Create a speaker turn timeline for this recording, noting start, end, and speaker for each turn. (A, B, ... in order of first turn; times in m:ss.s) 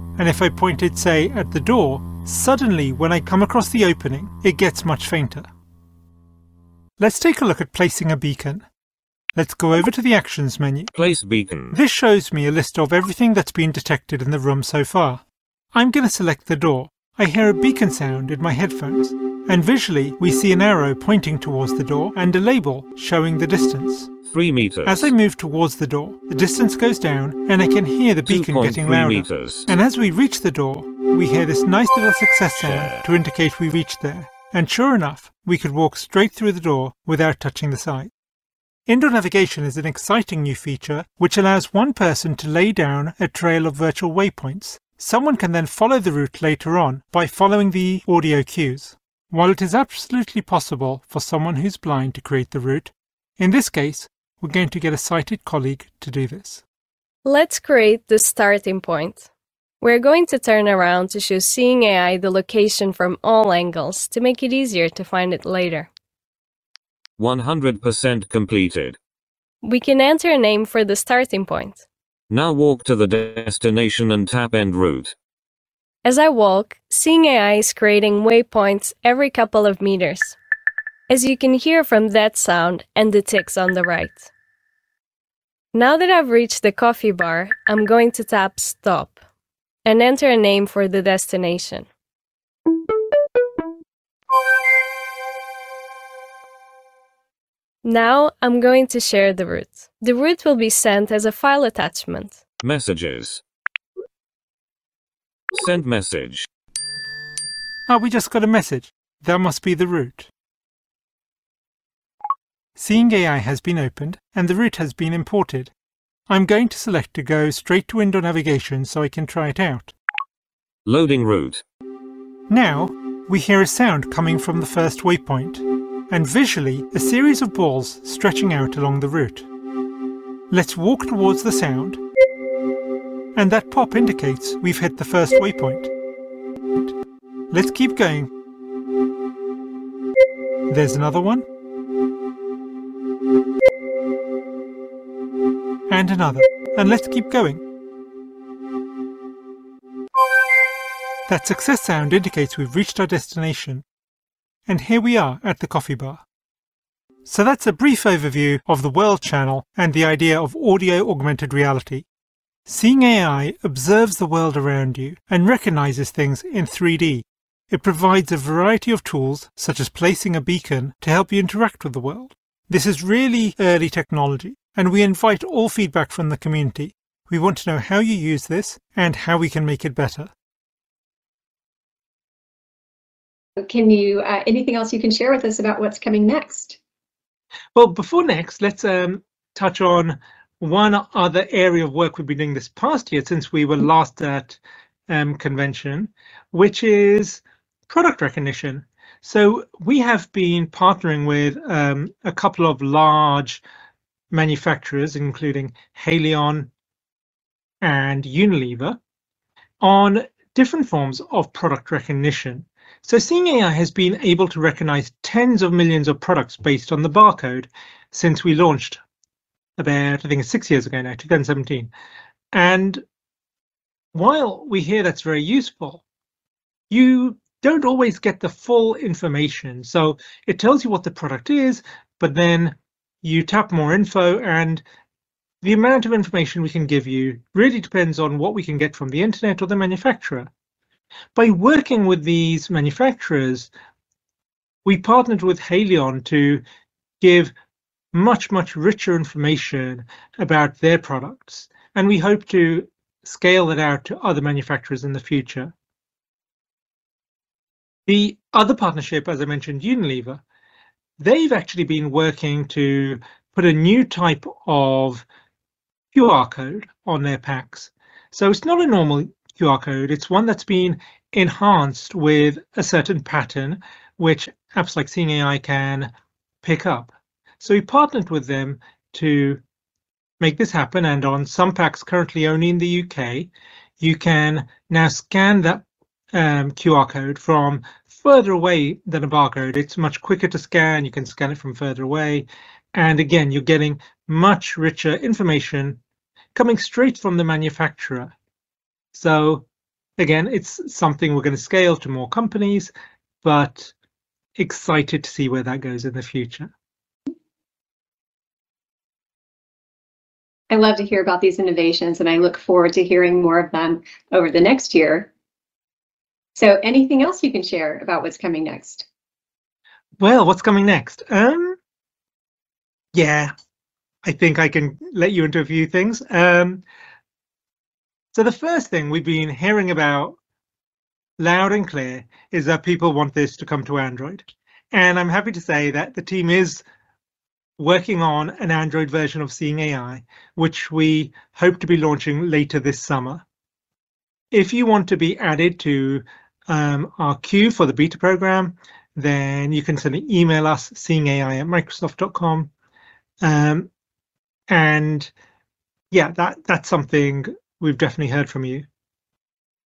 0:00.2-0:05.5 A
0:07.0-0:08.6 A
0:09.4-0:10.9 A
0:10.9-0:11.7 B
0:11.7-0:15.2 A
0:15.7-0:24.1 A
0:24.2-0:25.1 B
0:24.8-0:38.1 A
0:28.2-0:29.7 B
0:32.6-0:33.0 B
0:38.9-0:56.6 A
0:57.2-0:59.3 C
0:59.8-1:05.9 C
1:07.2-1:09.0 B
1:09.6-1:11.8 C
1:12.3-1:15.1 B
1:16.0-1:20.4 C
1:21.1-1:24.3 C
1:25.7-1:29.2 C
1:29.8-1:31.9 C
1:37.8-1:42.4 C
1:42.6-1:43.4 B
1:45.5-1:46.5 B
1:47.9-1:50.3 A
1:52.8-1:55.7 A
1:56.3-1:59.9 A
2:00.8-2:01.6 B
2:02.5-2:09.4 A
2:10.5-2:12.0 A
2:13.4-2:15.9 A
2:17.5-2:18.3 A
2:20.7-2:21.4 A
2:25.9-2:27.6 A
2:31.3-2:33.8 A
2:34.7-2:36.2 A
2:37.2-2:42.0 A
2:42.7-3:00.3 A
3:03.6-3:06.8 D
3:07.7-3:23.6 A
3:24.3-3:26.7 A
3:27.8-3:29.0 A
3:29.8-3:39.0 A
3:39.8-3:41.9 A
3:42.5-3:43.0 A
3:44.1-3:46.0 A
3:46.9-3:54.8 A
3:55.6-4:00.5 A
4:01.3-4:03.7 A
4:04.8-4:06.6 A
4:07.2-4:07.5 A
4:08.1-4:15.7 A
4:18.1-4:20.4 A
4:21.2-4:25.2 A
4:26.1-4:36.1 A
4:36.6-4:39.6 A
4:40.4-4:43.5 A
4:44.0-4:56.0 A
4:56.5-4:58.3 A
4:59.1-4:59.6 A
5:00.2-5:02.9 A
5:03.4-5:03.9 A
5:04.6-5:06.7 A
5:10.7-5:15.3 D
5:16.6-5:19.1 D
5:20.2-5:21.8 A
5:23.1-5:23.5 A
5:24.2-5:26.8 A
5:28.3-5:30.4 A
5:31.4-5:36.8 A
5:37.8-5:43.4 A
5:44.5-5:52.7 A
5:53.4-5:53.9 A
5:54.7-5:55.3 A
5:56.1-5:58.8 A